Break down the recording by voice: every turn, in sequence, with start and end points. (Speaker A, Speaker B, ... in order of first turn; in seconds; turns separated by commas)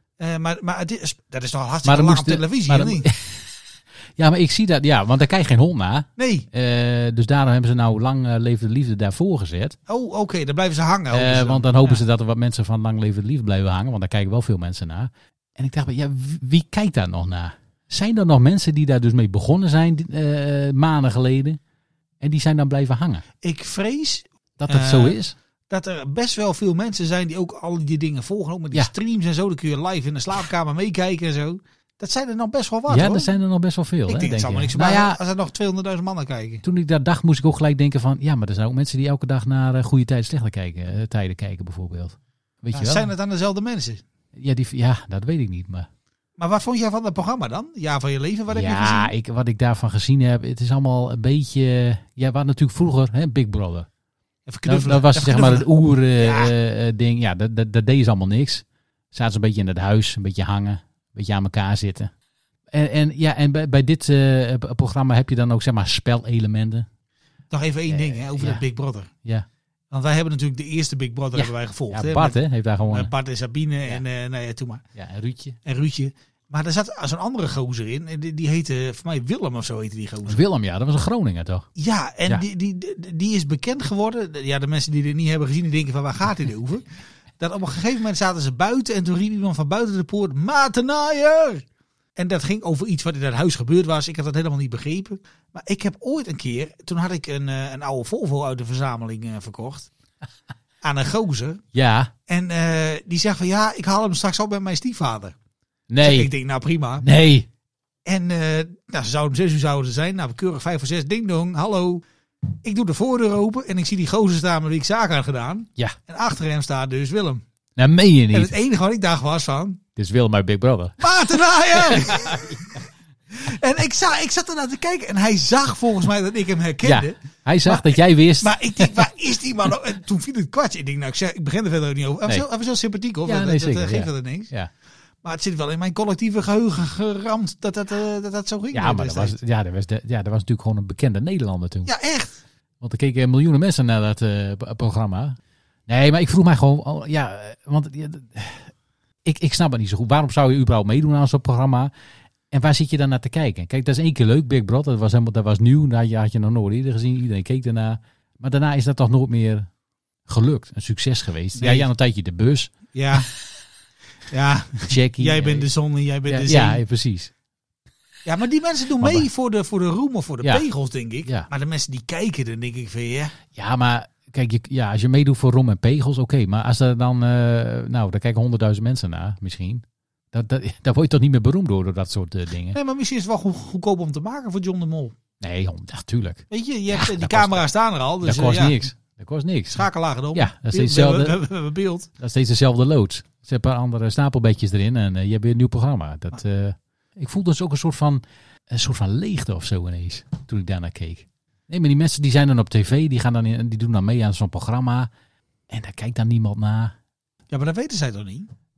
Speaker A: 0.2-3.1, Speaker B: 1.8-3.6, Speaker B: 4.2-9.8, Speaker A: 6.2-6.5, Speaker A: 9.9-12.0, Speaker B: 11.1-21.6, Speaker B: 22.2-23.2, Speaker A: 23.4-25.2, Speaker B: 24.6-25.4, Speaker A: 25.7-33.3, Speaker B: 32.9-35.2, Speaker A: 34.1-36.6, Speaker B: 36.6-43.1, Speaker A: 42.7-44.0, Speaker B: 44.3-45.9, Speaker A: 46.4-49.1, Speaker B: 48.5-53.9, Speaker A: 54.5-56.5, Speaker B: 54.6-62.1, Speaker B: 62.7-66.9, Speaker A: 67.5-69.1, Speaker B: 67.9-68.6, Speaker A: 69.9-74.8, Speaker B: 71.3-73.1, Speaker B: 74.9-75.6, Speaker A: 75.6-80.4, Speaker B: 80.2-81.7, Speaker A: 81.8-86.8, Speaker A: 87.4-91.6, Speaker A: 92.2-99.9, Speaker A: 100.8-101.6, Speaker B: 101.7-102.1, Speaker A: 102.3-105.3, Speaker B: 105.9-106.3, Speaker A: 106.0-107.0, Speaker B: 107.0-107.5, Speaker A: 108.0-112.0, Speaker A: 112.6-117.4, Speaker B: 117.8-118.5, Speaker A: 118.3-119.8, Speaker B: 120.0-121.0, Speaker A: 121.0-122.8, Speaker B: 121.7-122.8, Speaker A: 123.3-134.5, Speaker B: 126.8-129.0, Speaker B: 133.2-134.7, Speaker A: 135.2-139.4, Speaker B: 138.7-141.9, Speaker A: 141.8-142.4, Speaker B: 142.8-148.7, Speaker B: 149.2-151.9, Speaker B: 152.5-159.7, Speaker B: 160.2-162.7, Speaker A: 161.6-161.9, Speaker A: 162.9-163.3, Speaker A: 164.3-166.8, Speaker B: 164.9-165.7, Speaker B: 166.2-167.3, Speaker A: 168.2-173.3, Speaker B: 169.0-169.3, Speaker B: 173.5-182.8, Speaker A: 182.7-185.2, Speaker B: 185.4-187.7, Speaker A: 186.5-188.8, Speaker B: 188.2-191.4, Speaker A: 189.7-192.1, Speaker B: 192.2-205.1, Speaker B: 205.7-206.9, Speaker A: 207.5-208.5